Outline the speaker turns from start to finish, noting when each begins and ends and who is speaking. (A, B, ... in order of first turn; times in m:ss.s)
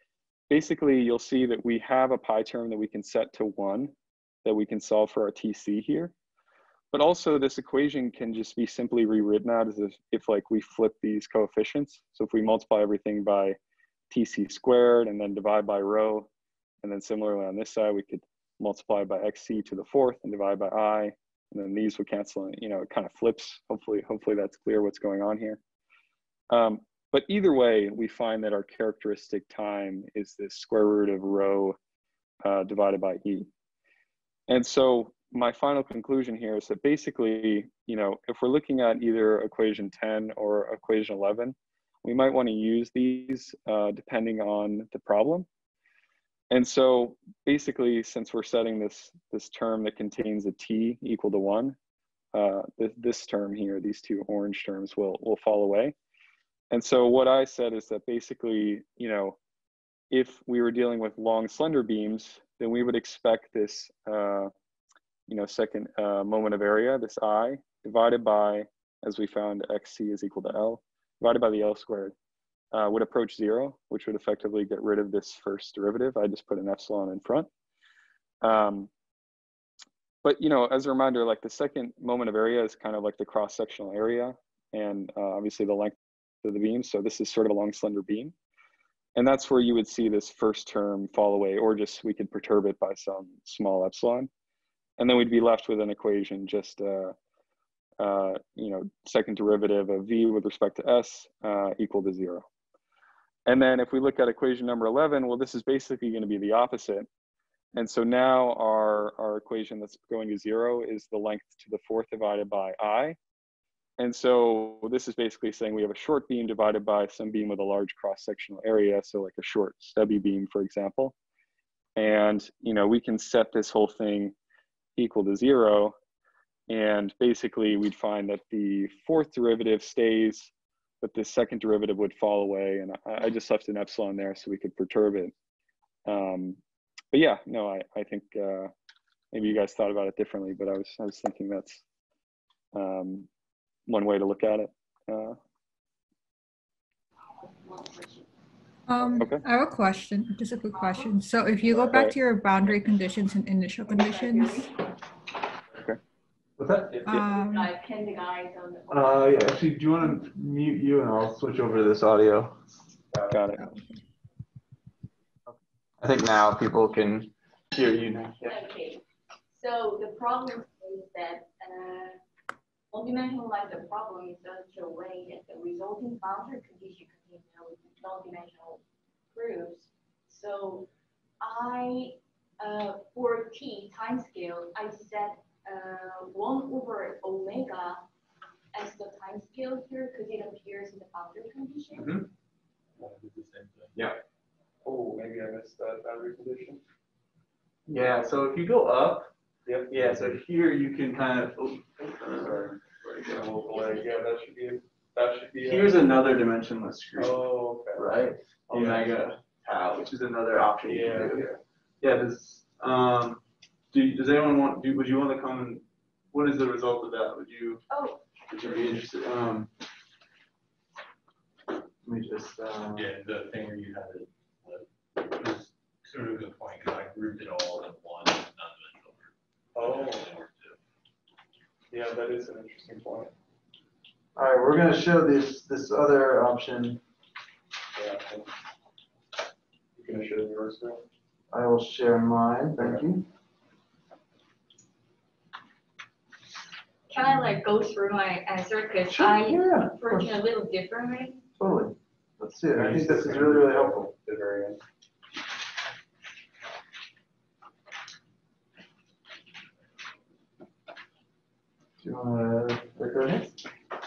0:00.5-0:03.9 A
0:04.4-0:06.1 A
0:06.9-0:13.6 A
0:14.1-0:16.3 A
0:16.8-0:25.6 A
0:26.5-0:31.8 A
0:32.4-0:33.5 A
0:34.5-0:45.5 A
0:46.5-0:51.8 A
0:52.3-0:55.9 A
0:56.7-0:59.4 A
1:00.1-1:04.5 A
1:05.3-1:12.1 A
1:12.7-1:17.5 A
1:18.4-1:18.9 A
1:20.2-1:28.3 A
1:29.1-1:34.3 A
1:35.0-1:37.1 A
1:38.0-1:42.4 A
1:43.4-1:47.1 A
1:47.7-1:53.2 A
1:54.0-2:01.1 A
2:02.0-2:04.3 A
2:05.0-2:05.9 A
2:06.7-2:15.3 A
2:16.0-2:16.6 A
2:17.1-2:18.7 A
2:19.3-2:21.8 A
2:22.7-2:23.3 A
2:23.9-2:25.4 A
2:27.4-2:28.2 B
2:28.9-2:34.7 C
2:29.2-2:29.4 A
2:30.7-2:31.1 B
2:31.7-2:32.2 A
2:33.9-2:34.7 B
2:36.6-2:37.1 D
2:37.0-2:37.7 C
2:37.3-2:39.4 B
2:38.9-2:42.6 D
2:43.3-2:43.6 A
2:43.5-2:44.0 C
2:45.5-2:48.6 D
2:48.4-2:52.2 B
2:52.9-2:58.8 B
2:59.3-3:00.9 B
3:01.4-3:08.0 B
3:08.7-3:12.2 B
3:11.9-3:12.3 D
3:13.0-3:14.1 E
3:14.8-3:16.8 A
3:17.9-3:19.3 D
3:19.9-3:22.7 D
3:22.4-3:26.1 A
3:25.6-3:27.4 D
3:27.2-3:28.0 A
3:27.9-3:33.4 D
3:28.7-3:29.0 A
3:30.8-3:31.5 A
3:33.9-3:37.8 D
3:37.9-3:38.2 B
3:38.5-3:39.7 D
3:42.0-3:43.1 D
3:42.9-3:50.8 E
3:49.8-3:50.3 A
3:51.9-3:53.3 A
3:54.4-3:57.0 D
3:58.0-3:58.5 A
4:00.0-4:01.0 A
4:01.5-4:03.2 D
4:07.1-4:11.4 B
4:09.1-4:10.3 D
4:11.6-4:14.0 D
4:12.7-4:14.8 A
4:22.0-4:23.5 D